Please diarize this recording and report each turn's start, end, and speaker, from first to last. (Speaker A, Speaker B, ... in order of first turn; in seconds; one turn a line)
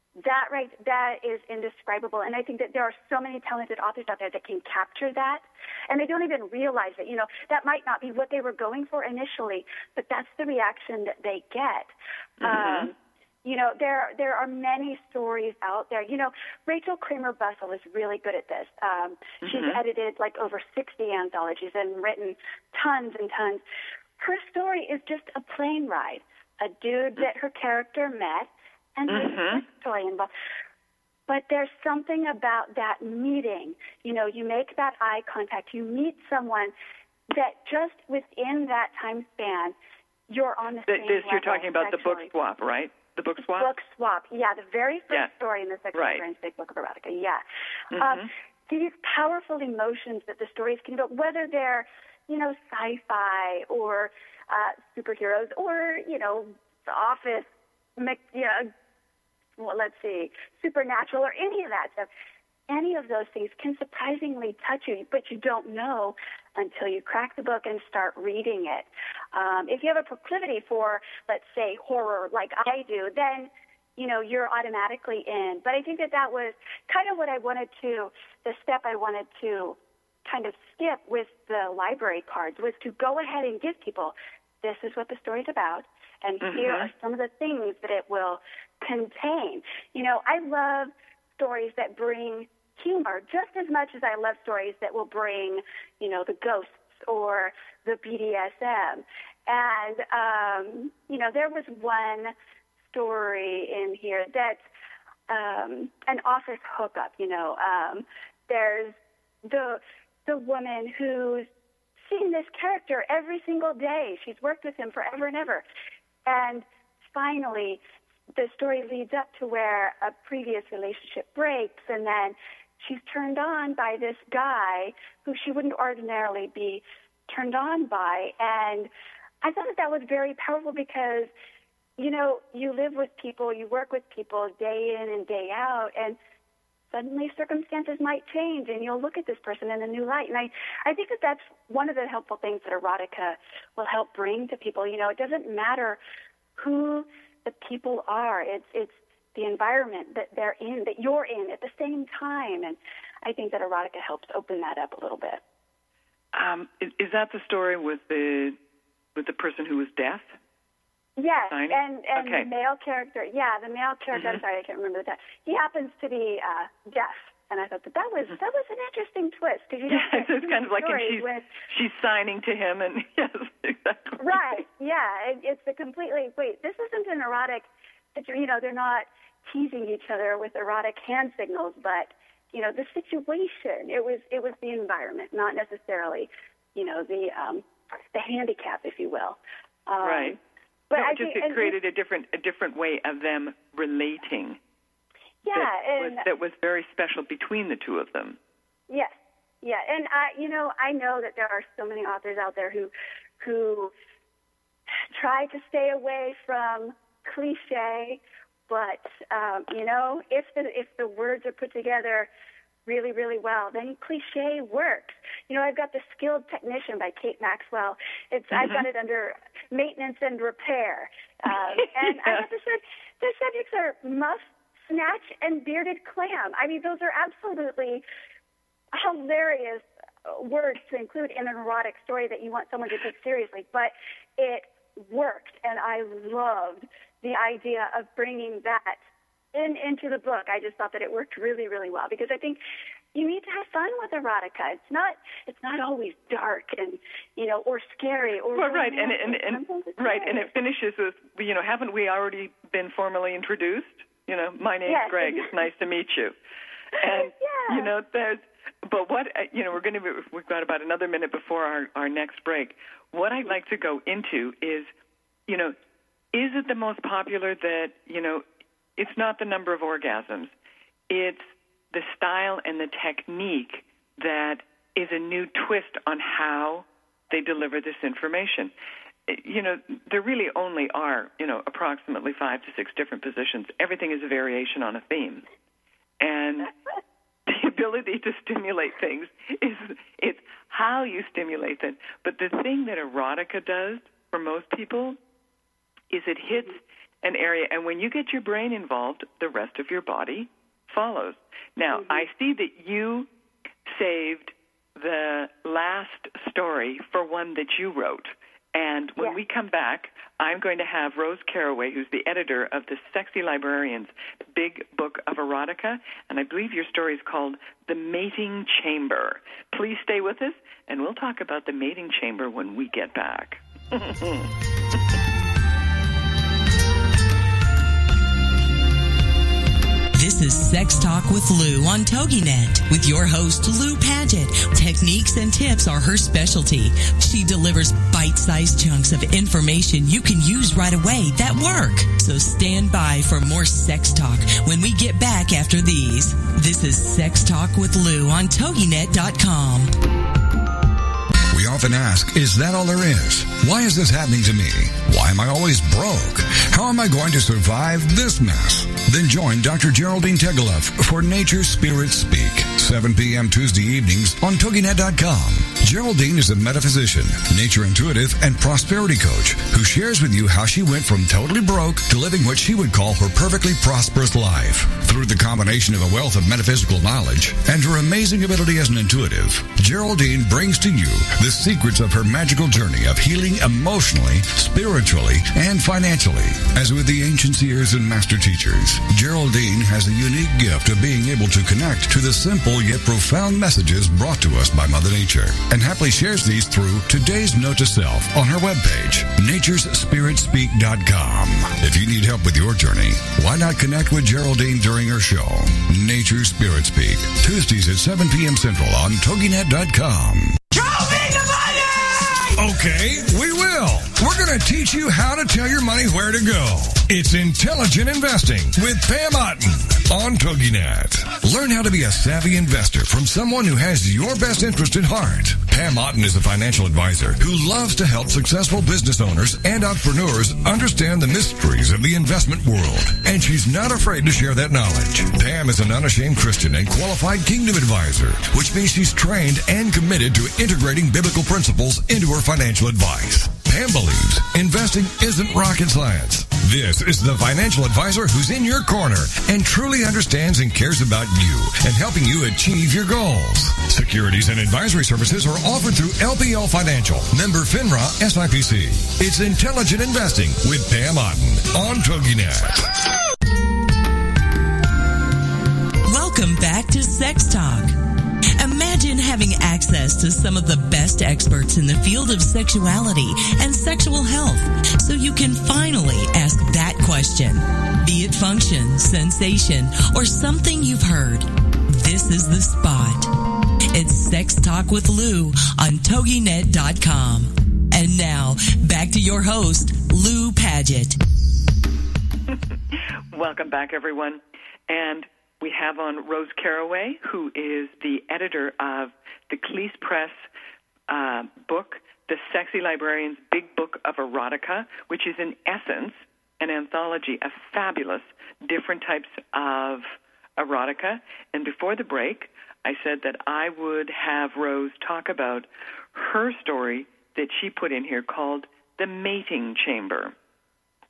Speaker A: 0.2-23.6
Speaker B: 12.4-12.9
Speaker B: 19.4-19.8
Speaker A: 24.2-30.3
Speaker B: 29.1-29.6
Speaker A: 31.3-36.7
Speaker A: 37.3-39.8
Speaker A: 40.3-42.3
Speaker B: 40.9-43.7
Speaker A: 43.6-58.7
Speaker B: 45.9-46.2
Speaker B: 47.9-48.3
Speaker A: 59.6-62.1
Speaker A: 62.7-102.3
Speaker B: 86.4-86.9
Speaker A: 102.9-104.6
Speaker A: 105.3-111.5
Speaker A: 112.0-115.6
Speaker A: 116.3-117.8
Speaker A: 118.4-128.9
Speaker A: 129.4-131.3
Speaker A: 132.0-136.2
Speaker A: 136.9-146.0
Speaker A: 146.6-155.4
Speaker B: 156.3-158.6
Speaker B: 159.2-160.3
Speaker A: 161.2-171.5
Speaker B: 161.5-162.5
Speaker B: 169.9-174.6
Speaker A: 174.2-190.4
Speaker B: 190.0-190.4
Speaker A: 190.9-191.8
Speaker B: 190.9-194.6
Speaker A: 195.4-196.2
Speaker B: 195.5-198.4
Speaker A: 198.9-203.9
Speaker A: 205.1-212.3
Speaker A: 212.9-228.0
Speaker B: 218.5-218.9
Speaker B: 222.1-222.4
Speaker A: 228.9-239.0
Speaker A: 239.5-242.6
Speaker A: 243.1-250.5
Speaker B: 248.6-256.4
Speaker A: 254.9-255.5
Speaker A: 257.0-257.9
Speaker B: 257.0-264.9
Speaker B: 265.5-265.8
Speaker B: 266.3-268.4
Speaker B: 269.0-270.5
Speaker B: 271.1-278.7
Speaker B: 279.3-285.4
Speaker B: 286.2-286.7
Speaker B: 287.5-295.2
Speaker B: 296.1-303.3
Speaker A: 301.9-302.2
Speaker B: 303.9-324.5
Speaker C: 330.1-349.9
Speaker D: 351.5-411.8
Speaker D: 412.4-462.9
Speaker C: 466.1-467.9
Speaker C: 468.6-483.3
Speaker C: 483.9-491.2
Speaker B: 492.5-500.4
Speaker B: 501.1-520.3